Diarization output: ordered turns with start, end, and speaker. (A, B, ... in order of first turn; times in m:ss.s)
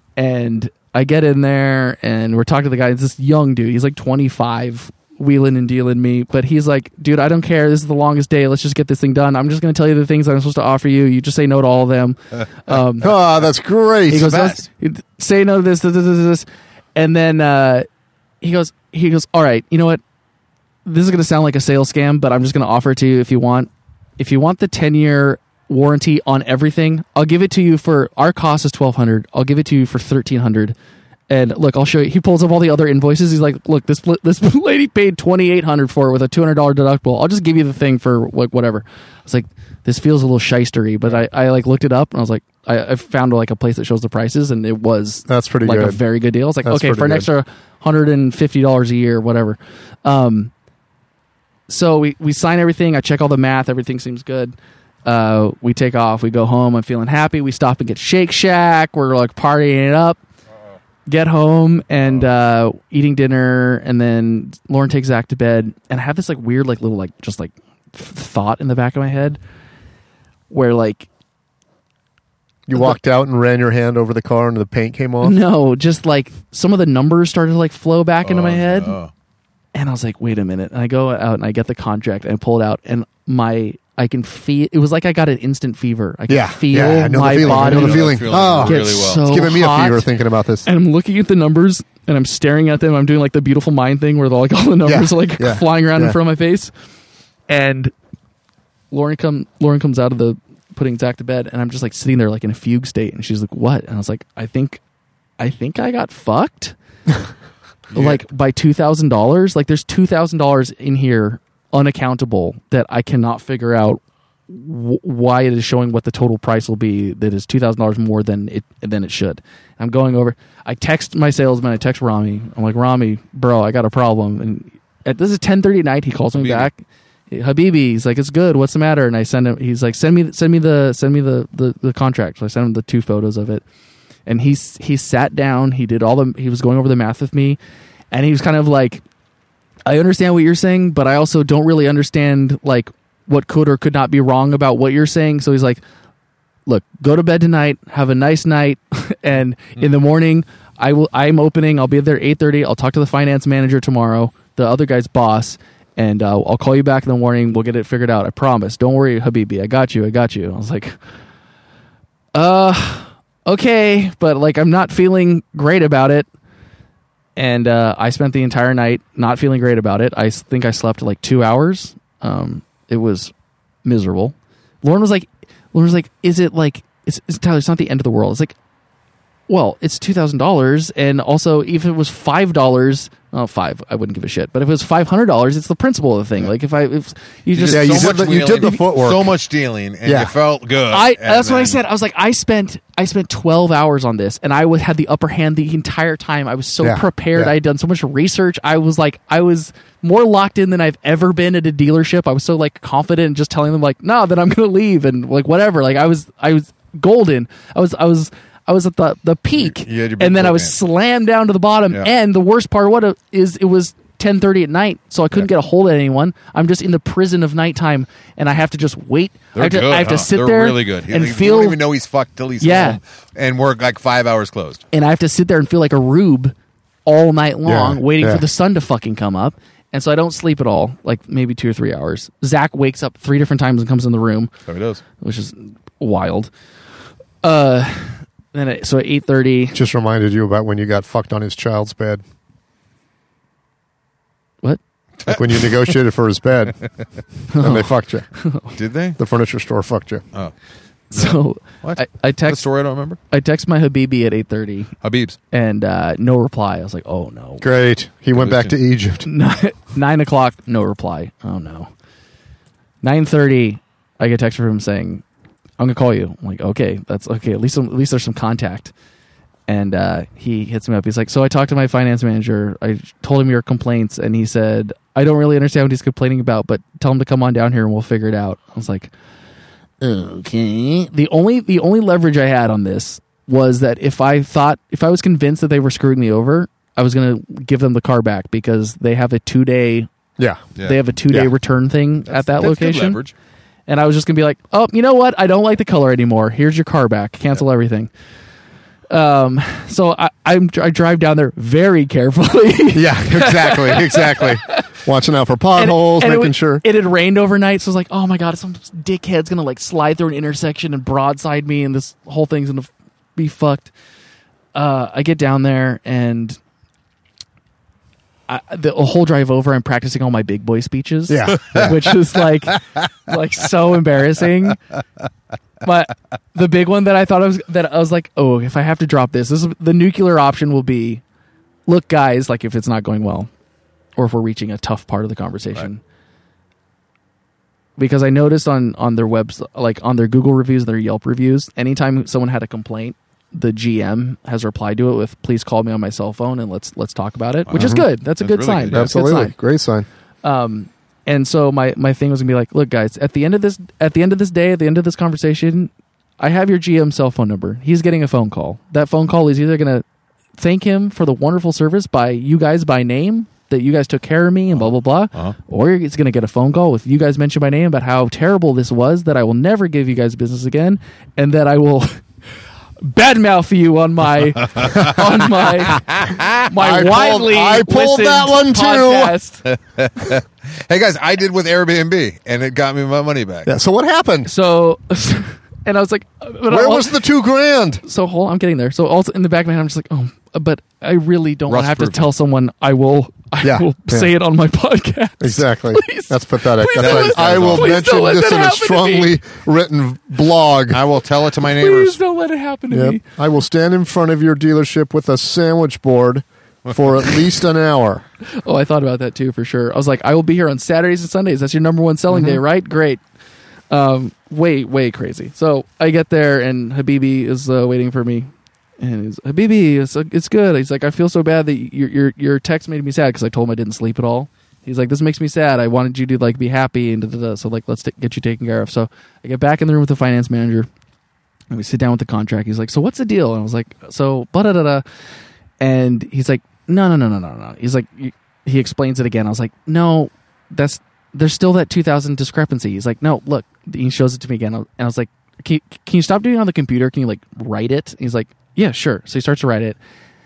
0:00.2-0:13.1 A
0:13.0-0:14.4 B
0:14.1-0:17.9 A
0:14.1-0:14.6 C
0:18.4-0:20.0 A
0:20.8-0:30.8 A
0:31.3-0:50.5 A
0:45.3-0:46.0 B
0:46.6-0:47.3 B
0:51.7-1:00.2 A
1:01.1-1:09.4 A
1:10.5-1:11.1 A
1:12.7-1:15.4 B
1:15.2-1:19.0 A
1:18.2-1:19.1 C
1:19.7-1:30.1 A
1:26.3-1:30.7 B
1:27.4-1:29.3 C
1:30.7-1:36.7 A
1:34.8-1:36.2 B
1:37.5-1:37.9 A
1:38.9-1:44.8 A
1:45.4-1:46.8 A
1:47.9-1:48.2 C
1:47.9-2:13.6 A
2:06.4-2:06.7 C
2:14.3-2:17.6 A
2:18.1-2:19.0 A
2:19.9-2:25.8 A
2:26.7-2:41.0 A
2:42.3-2:46.3 A
2:47.4-2:53.3 A
2:53.8-2:58.6 A
2:59.5-3:08.8 A
3:07.6-3:11.8 C
3:07.7-3:09.4 B
3:10.0-3:10.3 B
3:10.9-3:41.8 A
3:16.8-3:17.5 B
3:29.6-3:30.8 C
3:39.6-3:44.8 C
3:42.6-3:43.0 A
3:44.9-3:46.5 A
3:47.0-3:54.5 A
3:47.7-3:48.4 B
3:54.7-3:55.0 C
3:55.2-3:56.5 A
3:57.4-3:59.8 A
3:59.7-4:02.2 B
4:05.3-4:06.8 B
4:07.5-4:08.7 A
4:07.6-4:08.3 B
4:08.8-4:09.2 C
4:09.2-4:10.2 B
4:11.1-4:12.6 A
4:11.1-4:13.2 C
4:13.3-4:14.9 A
4:15.0-4:15.4 C
4:15.5-4:17.6 A
4:17.6-4:19.3 B
4:18.3-4:18.8 C
4:19.2-4:21.9 A
4:23.0-4:25.2 A
4:25.8-4:28.9 A
4:29.7-4:39.1 A
4:40.0-4:50.1 A
4:50.8-4:53.2 A
4:52.3-4:53.3 C
4:53.9-4:58.1 A
4:59.1-5:04.9 A
5:02.9-5:06.8 B
5:05.8-5:13.9 A
5:14.8-5:16.6 A
5:18.5-5:24.8 A
5:21.3-5:22.1 B
5:25.8-5:31.2 A
5:31.9-5:33.5 A
5:34.2-5:36.0 A
5:38.0-5:49.5 A
5:47.7-5:49.1 C
5:47.7-5:48.0 B
5:48.9-5:50.1 B
5:50.4-6:00.0 A
6:00.6-6:12.2 A
6:13.0-6:19.6 A
6:14.8-6:15.2 C
6:15.9-6:16.6 C
6:16.8-6:19.4 B
6:19.7-6:23.7 C
6:23.7-6:24.5 B
6:24.5-6:27.1 A
6:26.7-6:28.0 B
6:28.0-6:39.4 A
6:31.7-6:32.3 C
6:33.6-6:34.3 B
6:35.4-6:41.0 B
6:37.0-6:38.0 C
6:40.9-6:42.2 C
6:41.7-6:43.2 A
6:42.9-6:48.2 B
6:48.5-6:53.2 A
6:52.3-6:52.6 B
6:53.9-7:10.9 A
7:11.7-7:15.0 A
7:15.8-7:30.0 A